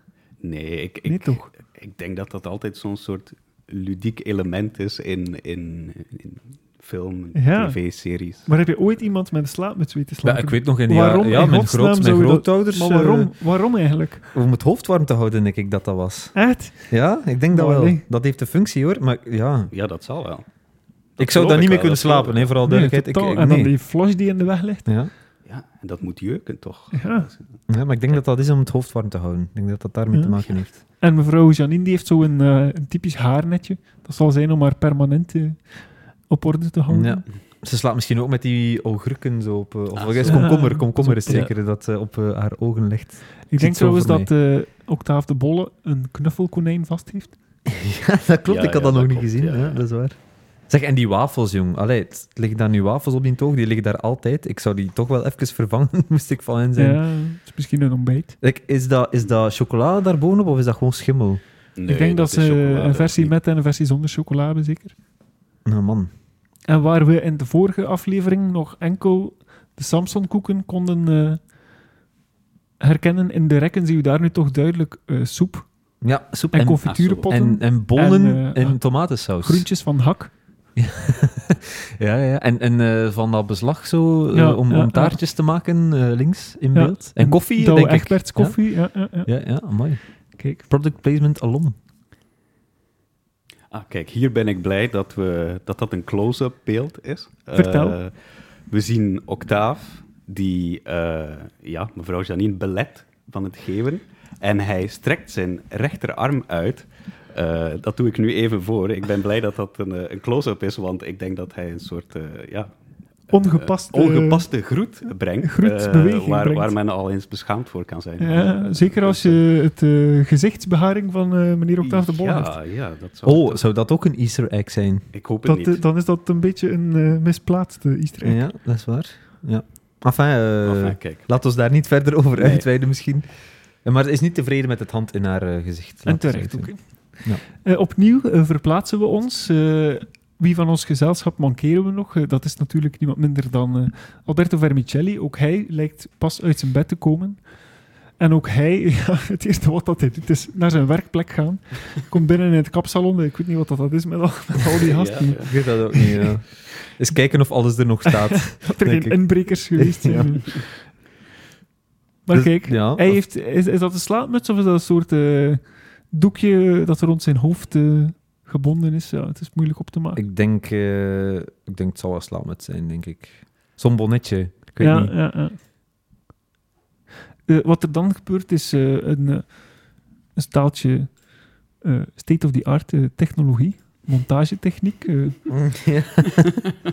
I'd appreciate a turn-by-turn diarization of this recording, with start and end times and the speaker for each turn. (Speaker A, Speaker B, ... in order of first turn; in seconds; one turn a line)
Speaker A: 0.4-8.5
Speaker B: 1.1-1.5
Speaker B: 7.3-7.8
Speaker B: 8.4-14.2
Speaker C: 10.2-13.3
Speaker C: 14.3-16.3
Speaker B: 16.3-16.9
Speaker C: 16.9-19.7
Speaker B: 17.5-18.0
Speaker A: 19.7-20.4
Speaker A: 21.2-22.5
Speaker C: 21.2-23.7
Speaker B: 22.6-24.9
Speaker A: 25.4-27.4
Speaker B: 26.9-27.3
Speaker C: 27.7-30.7
Speaker B: 30.1-30.4
Speaker B: 31.0-35.6
Speaker B: 36.3-37.2
Speaker C: 36.9-44.3
Speaker A: 40.0-40.6
Speaker B: 40.3-41.5
Speaker B: 43.5-47.3
Speaker C: 47.7-50.1
Speaker A: 48.5-49.8
Speaker C: 50.7-57.0
Speaker B: 56.8-58.4
Speaker C: 58.4-61.4
Speaker A: 61.8-63.3
Speaker B: 61.9-64.9
Speaker C: 65.6-66.1
Speaker B: 66.7-71.4
Speaker B: 72.8-75.7
Speaker C: 76.0-79.7
Speaker B: 76.5-80.3
Speaker A: 76.8-77.2
Speaker C: 80.8-88.6
Speaker B: 84.3-85.2
Speaker B: 86.7-89.3
Speaker C: 89.2-90.0
Speaker B: 90.4-90.6
Speaker C: 90.6-91.7
Speaker A: 93.7-98.2
Speaker B: 97.5-98.0
Speaker A: 98.7-112.7
Speaker B: 113.3-114.4
Speaker A: 113.3-119.4
Speaker B: 115.4-116.7
Speaker B: 118.2-122.5
Speaker A: 121.8-123.6
Speaker C: 123.2-125.1
Speaker A: 125.1-125.8
Speaker B: 125.4-128.4
Speaker C: 128.2-133.2
Speaker A: 130.6-131.2
Speaker A: 132.4-132.7
Speaker C: 133.8-136.7
Speaker B: 136.1-136.8
Speaker B: 137.4-147.4
Speaker B: 148.2-156.2
Speaker A: 154.8-155.5
Speaker C: 155.3-160.4
Speaker B: 158.1-160.7
Speaker B: 162.2-170.2
Speaker C: 162.3-163.2
Speaker C: 170.1-175.1
Speaker B: 174.8-175.6
Speaker B: 177.5-179.6
Speaker B: 180.3-181.2
Speaker B: 181.8-185.4
Speaker C: 185.5-186.6